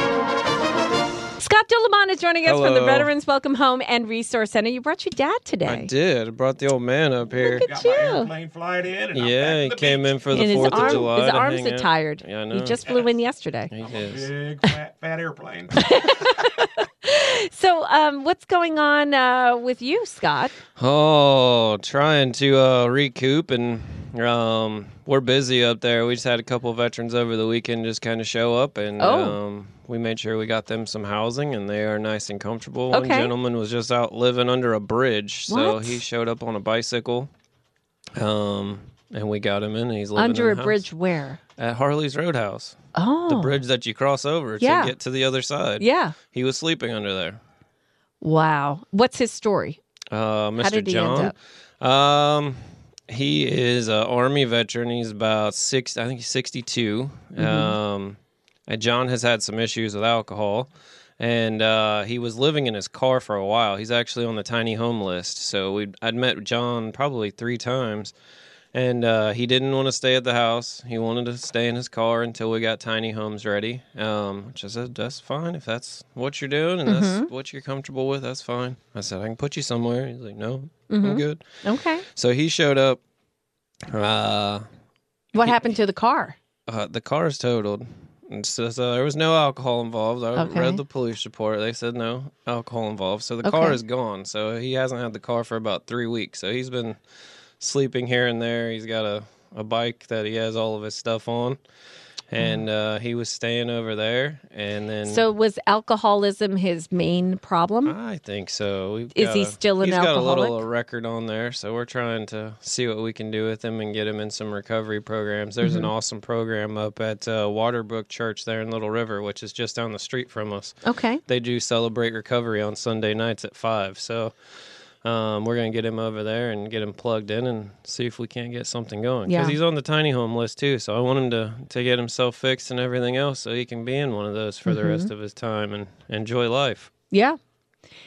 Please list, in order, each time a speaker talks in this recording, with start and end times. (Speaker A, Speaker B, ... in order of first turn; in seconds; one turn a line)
Speaker A: 1.4-5.9
Speaker B: 2.4-3.1
Speaker B: 5.6-7.7
Speaker A: 7.4-8.3
Speaker C: 7.4-11.1
Speaker B: 9.1-12.8
Speaker A: 10.3-13.7
Speaker B: 13.7-14.3
Speaker C: 13.9-16.1
Speaker A: 15.7-20.6
Speaker B: 20.8-37.3
Speaker A: 29.0-29.4
Speaker A: 32.9-33.3
Speaker A: 35.5-36.0
Speaker B: 38.2-40.8
Speaker A: 40.1-41.4
Speaker B: 41.6-42.8
Speaker A: 42.9-43.6
Speaker B: 43.3-47.4
Speaker A: 44.6-44.9
Speaker A: 45.8-46.2
Speaker A: 48.2-49.8
Speaker B: 50.1-60.7
Speaker A: 50.6-51.3
Speaker A: 57.4-57.7
Speaker B: 61.2-68.1
Speaker B: 68.7-83.0
Speaker A: 76.8-77.3
Speaker A: 80.9-82.0
Speaker B: 83.9-84.6
Speaker A: 85.3-86.3
Speaker B: 86.7-97.0
Speaker A: 90.3-90.8
Speaker A: 93.4-93.8
Speaker B: 97.6-101.6
Speaker B: 102.3-105.2
Speaker A: 105.1-108.0
Speaker B: 107.8-124.3
Speaker A: 109.1-110.6
Speaker A: 115.6-115.9
Speaker A: 120.8-121.2
Speaker B: 125.0-136.9
Speaker A: 129.2-129.6
Speaker A: 134.7-135.1
Speaker A: 137.1-137.4